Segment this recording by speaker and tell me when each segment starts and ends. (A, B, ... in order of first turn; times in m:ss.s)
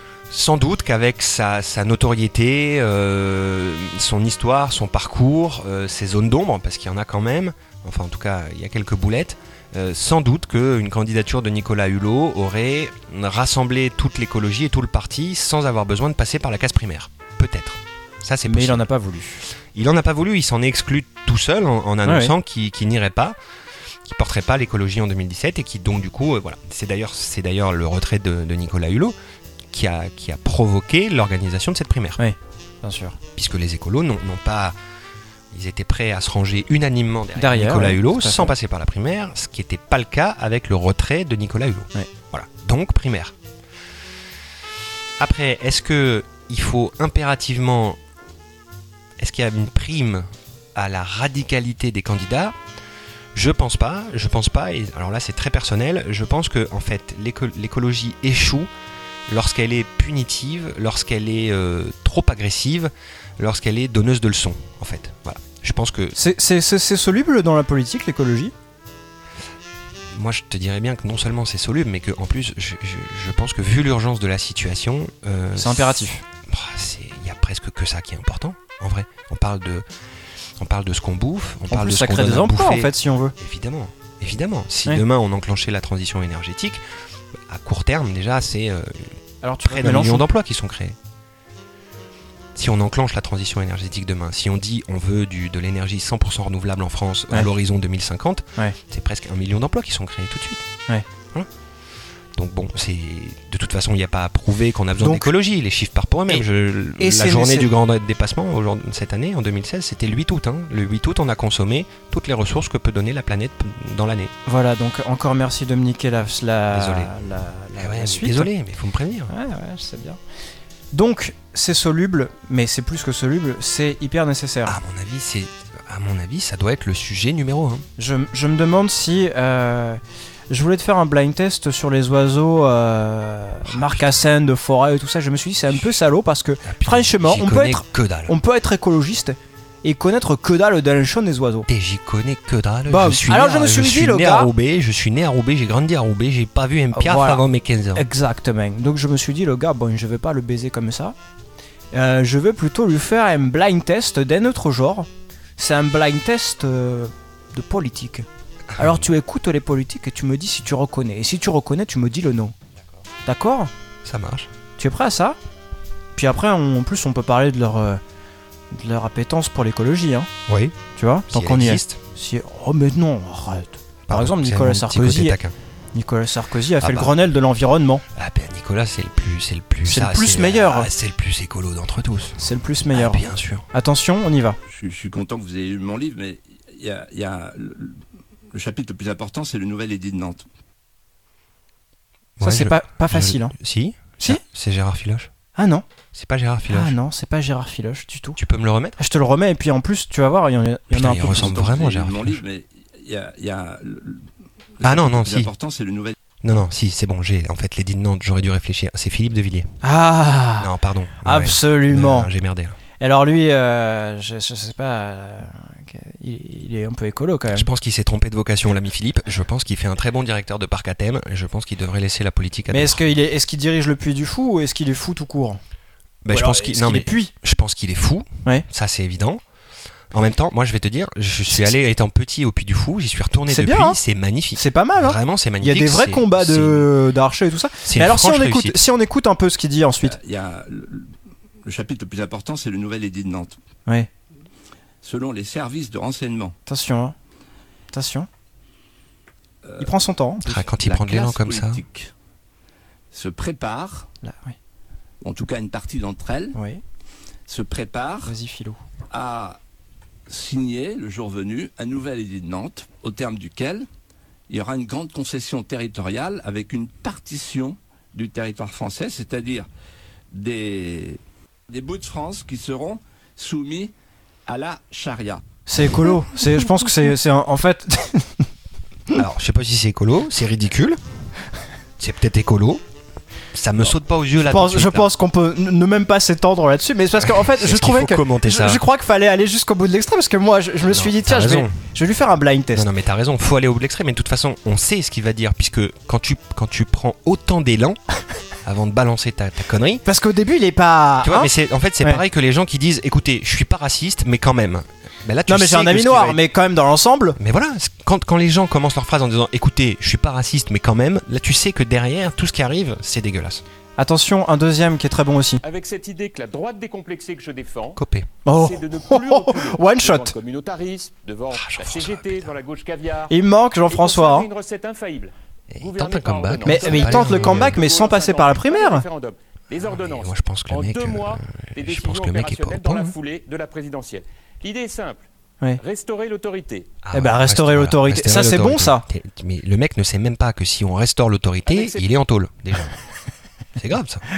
0:00.3-0:18.8 A
0:18.4-0:19.4 B
0:19.7-0:23.4 A
0:22.0-0:22.3 B
0:24.0-0:29.1 A
0:29.7-0:32.2 A
0:32.2-0:33.2 B
0:33.3-0:34.8 A
0:35.5-0:43.3 A
0:37.4-0:38.5 B
0:45.2-0:48.0 A
0:49.2-0:52.5 A
0:53.3-0:58.7 A
0:59.3-1:06.2 A
1:06.1-1:08.5 B
1:10.1-1:19.8 A
1:15.6-1:16.2 B
1:20.6-1:26.8 A
1:21.7-1:23.3 B
1:27.5-1:31.0 A
1:29.4-1:30.2 B
1:32.5-1:40.7 A
1:42.3-1:54.3 A
1:45.0-1:45.3 B
1:47.0-1:47.7 B
1:54.4-1:58.5 B
1:56.7-1:57.1 A
1:57.8-1:59.3 A
1:59.3-2:00.2 B
2:00.9-2:04.8 B
2:04.6-2:07.9 A
2:08.0-2:21.7 B
2:13.6-2:14.2 A
2:16.6-2:18.3 A
2:21.7-2:28.0 A
2:22.9-2:24.5 B
2:26.9-2:31.2 B
2:31.9-2:38.2 B
2:38.7-2:39.0 A
2:38.8-2:42.5 B
2:43.2-2:43.7 B
2:44.0-2:44.5 A
2:44.8-2:45.4 B
2:46.1-2:48.0 B
2:48.7-2:50.3 B
2:50.5-2:50.8 A
2:50.9-2:55.4 B
2:51.3-2:52.0 A
2:54.1-2:55.5 A
2:55.9-2:58.0 B
2:56.8-2:57.2 A
2:58.1-3:02.4 A
2:59.8-3:00.9 B
3:02.4-3:04.6 B
3:02.9-3:03.6 A
3:04.7-3:10.4 C
3:12.4-3:15.3 A
3:12.4-3:13.5 B
3:15.6-3:15.8 B
3:16.1-3:16.9 A
3:16.7-3:18.4 B
3:18.4-3:19.0 A
3:19.0-3:21.5 B
3:20.9-3:22.4 A
3:21.2-3:26.1 C
3:24.8-3:25.5 A
3:26.4-3:29.8 A
3:29.8-3:30.7 B
3:30.6-3:32.8 A
3:31.2-3:32.3 B
3:33.0-3:37.7 B
3:37.5-3:43.0 A
3:42.7-3:45.6 B
3:46.2-3:49.4 A
3:46.3-3:47.3 B
3:50.1-3:56.9 A
3:53.5-3:54.0 B
3:54.5-4:00.2 B
3:57.8-3:58.8 A
4:00.0-4:01.1 C
4:01.6-4:03.6 C
4:05.0-4:06.6 C
4:06.6-4:07.1 B
4:07.9-4:08.3 B
4:09.6-4:09.9 C
4:09.8-4:10.6 B
4:10.4-4:11.8 A
4:10.5-4:12.1 C
4:13.1-4:14.1 C
4:14.2-4:14.6 B
4:15.2-4:16.6 C
4:16.5-4:16.8 B
4:17.5-4:18.3 C
4:18.2-4:18.8 B
4:19.1-4:19.6 C
4:20.3-4:23.9 C
4:24.5-4:29.7 C
4:30.3-4:33.9 C
4:34.5-4:35.4 C
4:35.7-4:38.5 B
4:39.1-4:41.0 A
4:42.0-4:42.8 A
4:43.5-4:45.1 A
4:44.4-4:52.9 B
4:47.2-4:48.8 A
4:50.8-4:51.8 A
4:52.7-4:58.0 A
4:58.6-5:00.0 A
5:00.0-5:02.2 B
5:01.2-5:06.4 A
5:05.5-5:07.4 B
5:07.4-5:13.6 A
5:14.0-5:15.6 B
5:15.6-5:23.3 D
5:18.0-5:18.3 A
5:18.4-5:20.3 B
5:21.5-5:22.5 A
5:23.3-5:24.5 B
5:23.9-5:35.2 D
5:25.7-5:27.8 A
5:26.6-5:29.0 B
5:29.8-5:33.1 A
5:35.8-5:37.0 D
5:37.0-5:43.0 A
5:37.1-5:39.0 B
5:41.6-5:42.0 D
5:43.8-5:44.2 A